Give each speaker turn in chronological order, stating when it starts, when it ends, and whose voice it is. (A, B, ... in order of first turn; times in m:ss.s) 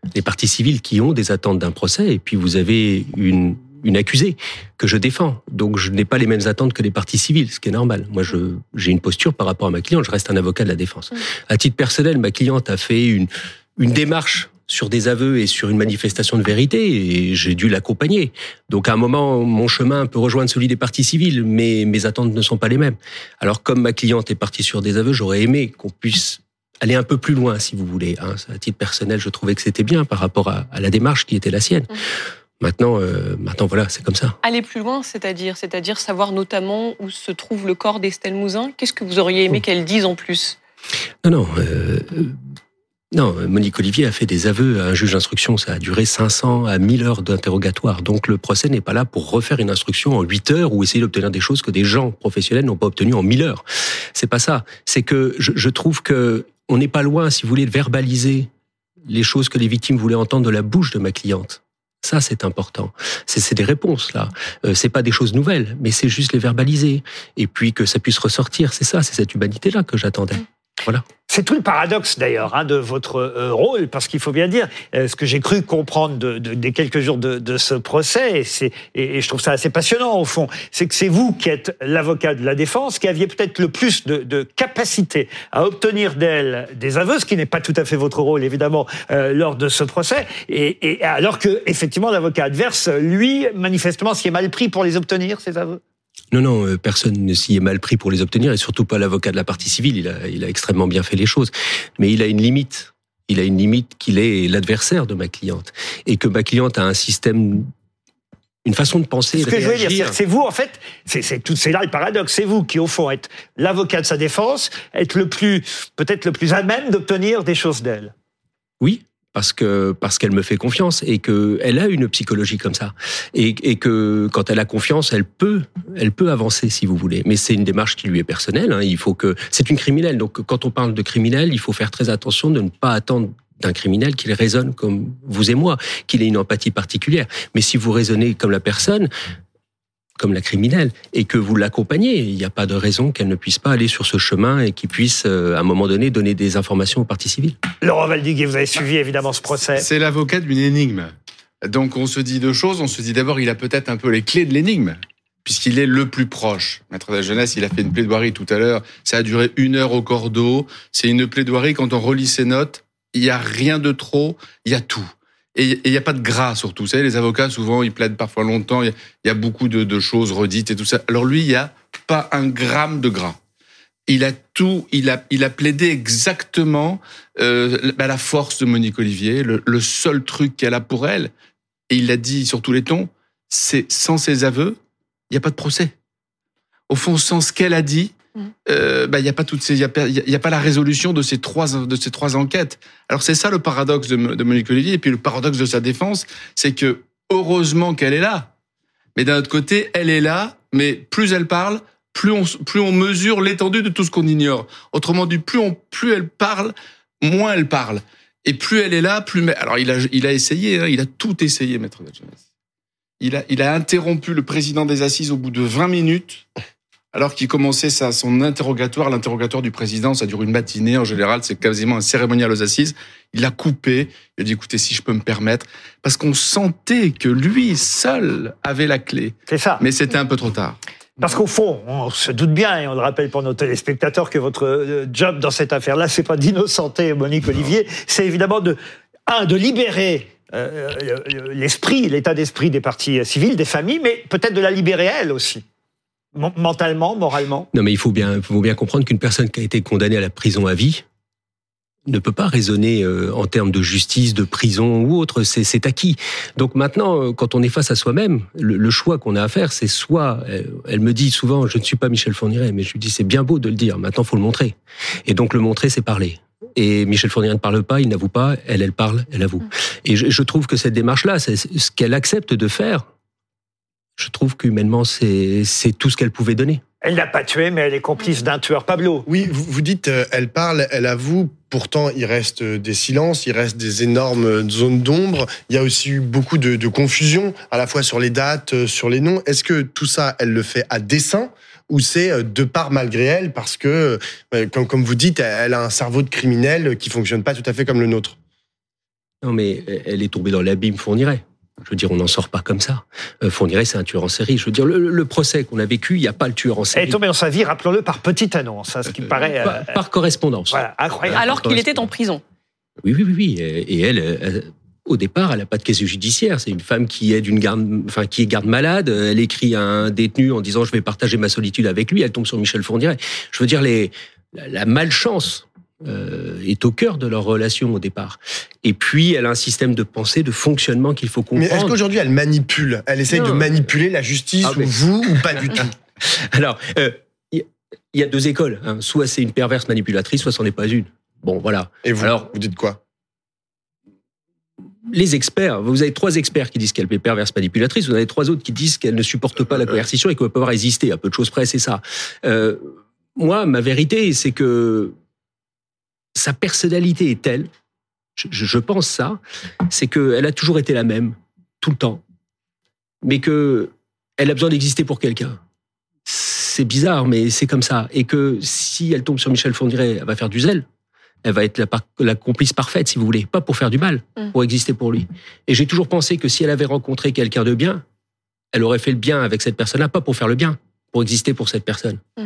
0:00.1-0:31.9 A
0:32.6-0:34.4 A
0:34.4-0:40.6 B
0:41.2-0:42.4 A
0:43.1-0:53.6 A
0:54.1-0:58.5 A
0:59.1-1:11.0 A
1:11.3-1:35.8 C
1:36.3-1:47.7 A
1:48.6-1:50.2 A
1:49.3-1:58.1 C
1:58.8-2:19.1 A
2:20.2-2:27.6 A
2:27.8-2:29.8 C
2:29.8-2:53.4 D
2:54.1-3:01.3 D
3:01.9-3:04.8 D
3:05.3-3:05.9 D
3:06.9-3:08.1 D
3:08.6-3:18.5 D
3:19.2-3:32.4 D
3:33.2-3:36.4 D
3:37.1-3:50.8 D
3:49.5-3:49.8 C
3:51.2-3:58.8 C
3:59.3-4:05.6 C
4:06.4-4:07.7 C
4:07.7-4:11.0 A
4:12.1-4:24.7 A
4:25.2-4:33.0 A
4:34.2-4:36.8 A
4:37.0-4:39.3 C
4:39.3-4:58.4 E
4:59.4-5:07.2 A
5:06.9-5:09.9 C
5:09.6-5:12.0 A
5:10.7-5:11.5 C
5:11.3-5:12.4 B
5:13.0-5:32.0 A
5:31.6-5:35.9 E
5:33.3-5:33.7 A
5:34.6-5:34.9 A
5:35.8-5:42.5 A
5:42.0-5:43.0 E
5:45.1-5:55.1 A
5:56.3-5:57.7 A
5:58.4-6:02.2 A
6:03.2-6:05.6 A
6:06.3-6:10.8 A
6:11.4-6:18.0 A
6:18.7-6:22.2 A